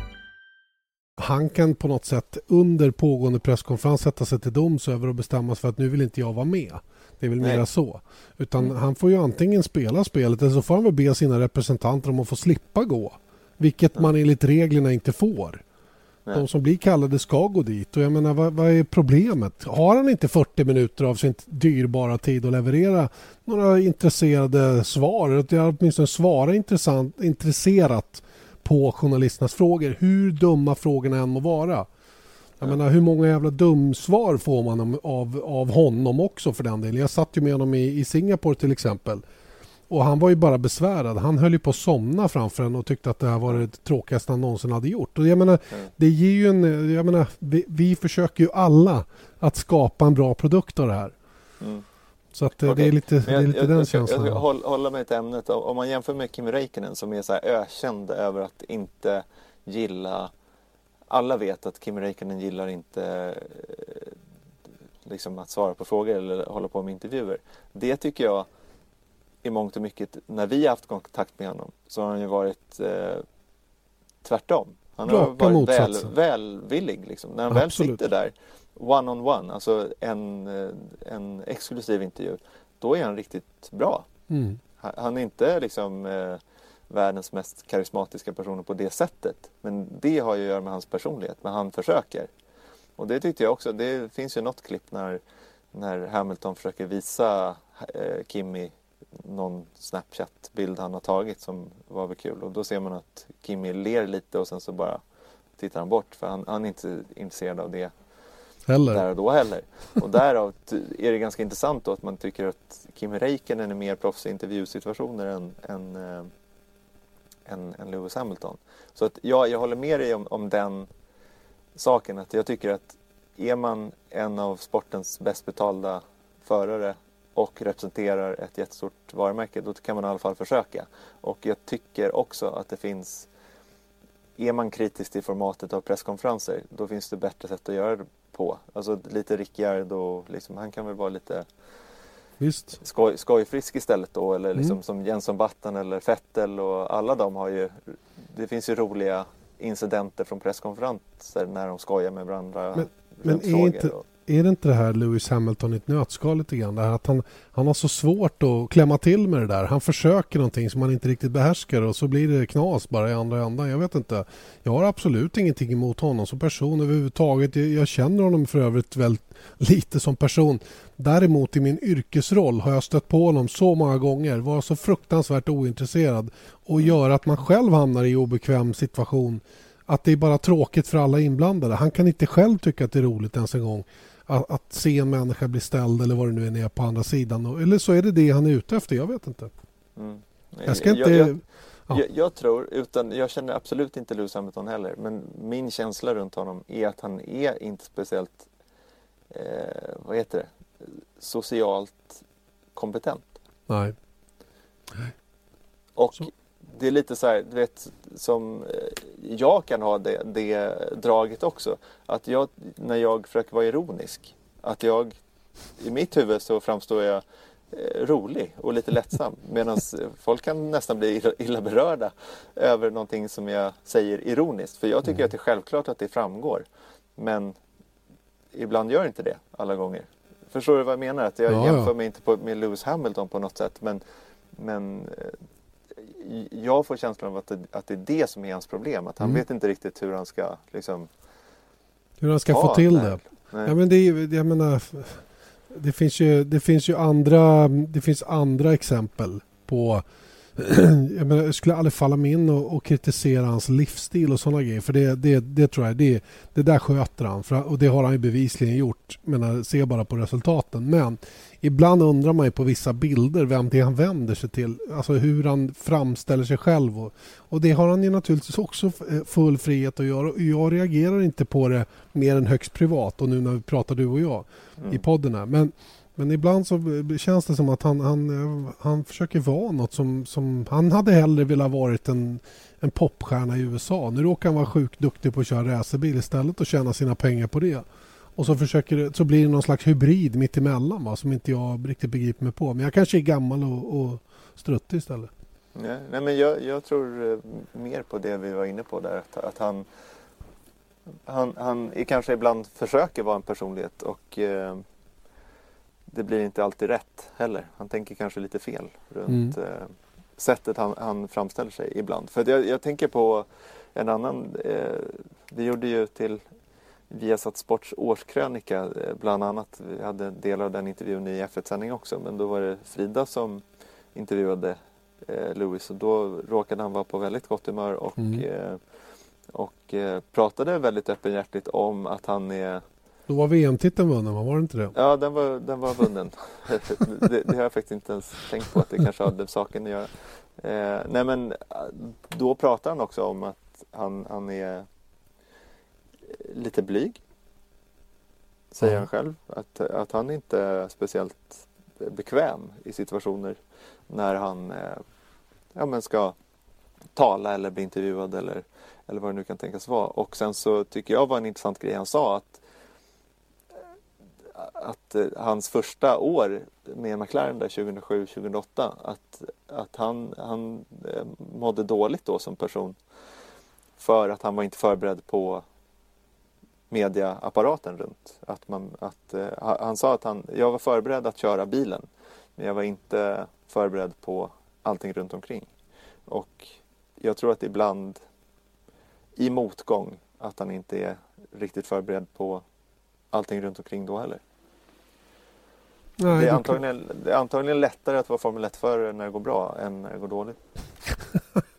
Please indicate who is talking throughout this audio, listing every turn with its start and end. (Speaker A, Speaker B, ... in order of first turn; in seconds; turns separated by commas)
Speaker A: 1.2-15.6, Speaker A: 16.3-31.9, Speaker A: 32.6-39.2, Speaker A: 39.9-51.1, Speaker A: 52.3-54.4, Speaker B: 52.6-60.3, Speaker B: 61.1-64.1, Speaker B: 65.0-68.5, Speaker B: 69.4-73.2, Speaker B: 74.2-84.0, Speaker A: 75.0-76.1, Speaker A: 77.5-78.0, Speaker A: 84.3-84.6, Speaker B: 84.8-92.3, Speaker B: 93.0-95.2, Speaker B: 95.7-105.0, Speaker B: 105.6-107.9, Speaker A: 108.7-109.0, Speaker B: 108.9-116.3, Speaker B: 117.5-120.9, Speaker B: 121.8-133.3, Speaker B: 134.4-141.5, Speaker A: 142.4-142.8, Speaker B: 142.8-154.0, Speaker A: 152.7-189.5, Speaker B: 190.0-191.4, Speaker A: 190.6-192.0, Speaker B: 191.9-198.5, Speaker B: 199.3-202.2, Speaker B: 202.7-203.3, Speaker A: 203.7-203.9, Speaker B: 206.0-215.2, Speaker B: 215.8-226.6, Speaker B: 227.2-227.6, Speaker B: 228.5-234.0, Speaker A: 231.5-231.9, Speaker B: 234.6-235.4, Speaker B: 236.0-241.1, Speaker A: 242.2-250.0, Speaker B: 242.5-243.7, Speaker A: 250.6-295.3, Speaker B: 274.8-275.0, Speaker B: 295.7-299.9, Speaker B: 301.2-304.8, Speaker B: 306.1-316.4, Speaker A: 309.3-309.6, Speaker B: 317.1-323.6, Speaker B: 324.1-328.8, Speaker A: 328.2-328.4, Speaker B: 329.5-332.8, Speaker A: 333.3-334.9, Speaker B: 334.9-344.9, Speaker B: 346.3-347.2, Speaker B: 348.7-355.0, Speaker B: 355.7-356.4, Speaker B: 357.1-362.6, Speaker B: 364.5-372.9, Speaker B: 374.0-375.6, Speaker B: 376.9-382.1, Speaker B: 382.6-385.7, Speaker B: 386.3-388.2, Speaker B: 389.4-392.6, Speaker B: 393.3-394.4, Speaker A: 396.2-396.8, Speaker B: 396.3-400.6